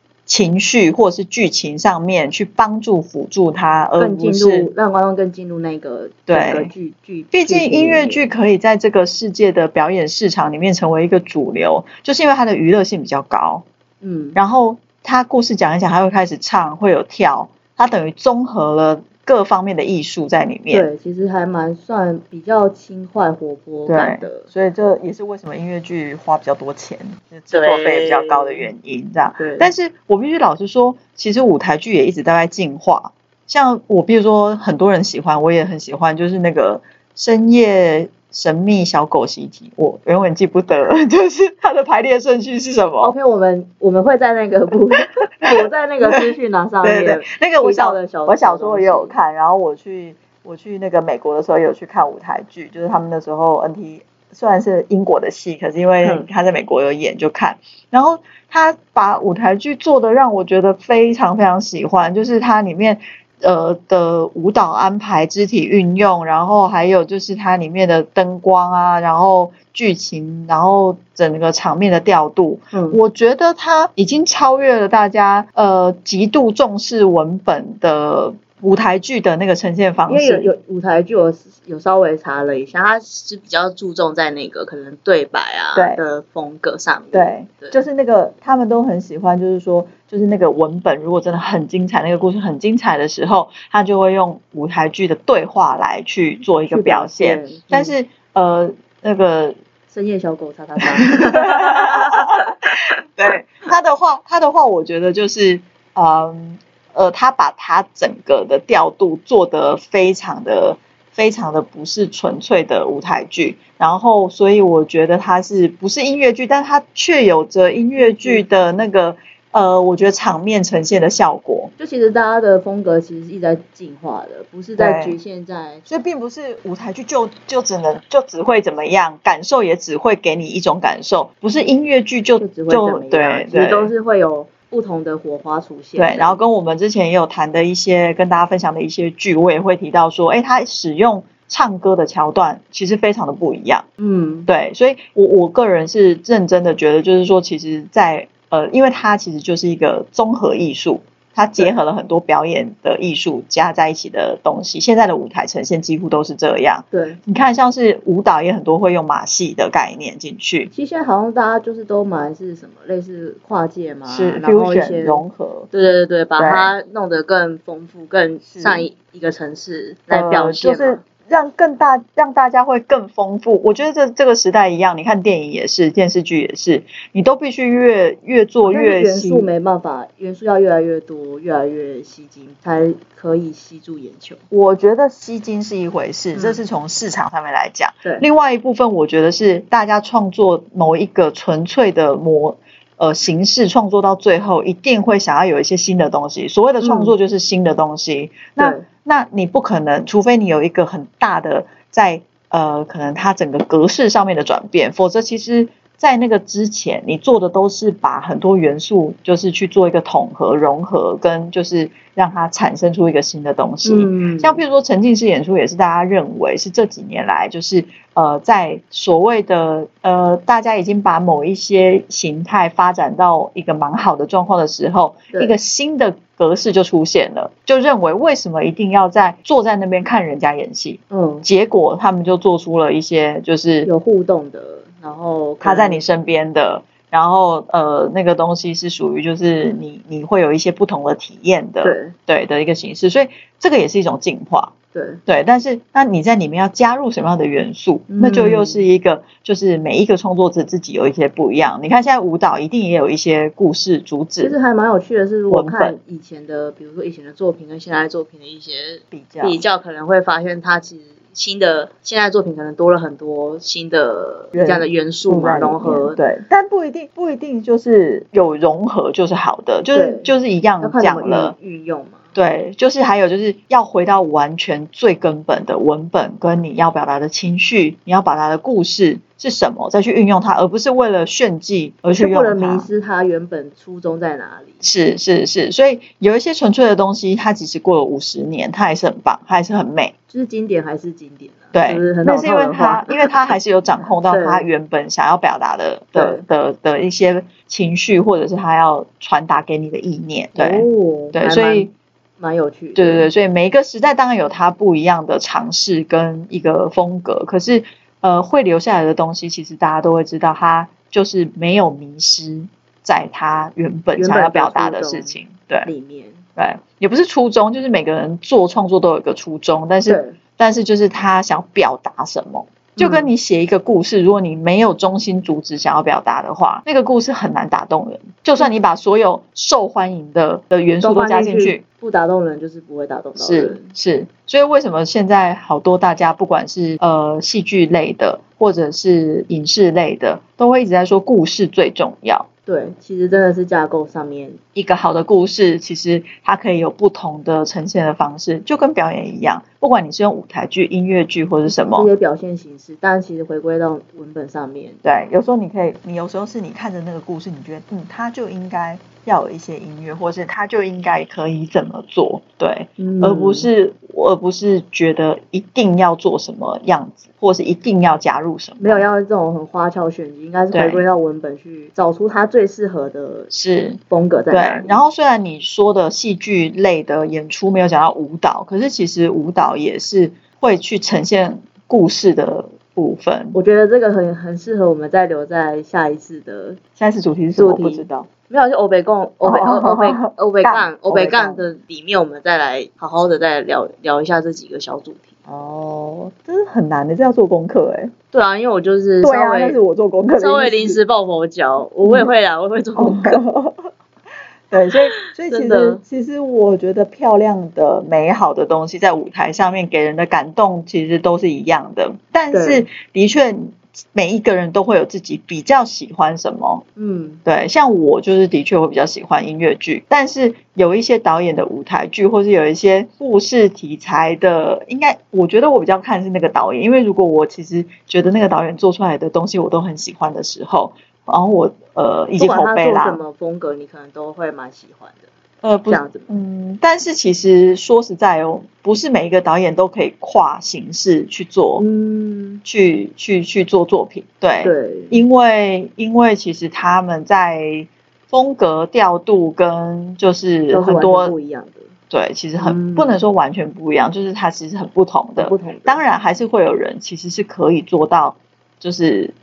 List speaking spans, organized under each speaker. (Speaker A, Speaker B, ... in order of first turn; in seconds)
Speaker A: 0.3-4.7, 6.3-6.7, 7.3-13.6, 14.3-20.9, 23.9-43.1, 45.4-80.5, 85.7-86.0, 87.1-99.5, 100.8-102.3, 103.2-121.7, 124.8-125.2, 125.9-133.9, 136.0-143.8, 144.5-160.7, 164.1-165.7, 166.4-166.7, 168.4-168.9, 170.1-179.5, 184.5-233.9, 235.6-244.7, 245.3-254.6, 255.5-256.0, 259.1-259.6, 264.5-271.6, 272.4-282.9, 284.8-290.1, 291.7-301.9, 302.9-315.9, 316.6-331.8, 333.4-342.5, 344.8-352.1, 355.0-369.1, 370.7-371.1, 373.5-374.0, 374.5-383.6, 387.0-388.3, 389.4-391.7, 395.5-398.1, 399.2-401.0, 402.0-402.3, 403.0-403.9, 404.7-416.8, 417.4-433.2, 435.6-441.9, 442.6-451.4, 452.1-459.3
Speaker B: 4.0-8.3, 14.0-14.4, 20.7-24.5, 27.5-28.7, 29.4-29.7, 43.0-49.1, 56.0-56.3, 72.7-73.0, 80.1-87.9, 96.7-98.0, 99.9-102.5, 118.0-118.5, 121.8-125.8, 132.4-136.4, 144.0-144.5, 156.9-157.2, 160.7-171.0, 178.7-184.4, 186.3-186.6, 196.8-197.2, 198.6-198.9, 213.8-214.6, 231.1-231.4, 233.8-236.0, 241.8-242.2, 244.9-245.2, 248.1-248.9, 254.4-266.2, 269.9-272.3, 282.1-284.9, 290.3-293.3, 294.2-294.6, 296.1-296.4, 300.6-303.3, 314.1-316.4, 320.1-320.4, 323.0-323.3, 331.0-333.9, 342.7-344.6, 351.7-355.0, 363.0-363.7, 368.8-373.5, 374.1-375.0, 383.5-386.8, 387.6-395.3, 398.3-399.8, 400.3-403.4, 405.4-406.0, 412.5-412.9, 417.0-417.4, 432.4-435.3, 435.9-436.3, 441.8-442.6, 444.6-445.2, 450.7-451.9, 452.6-453.2, 455.4-456.0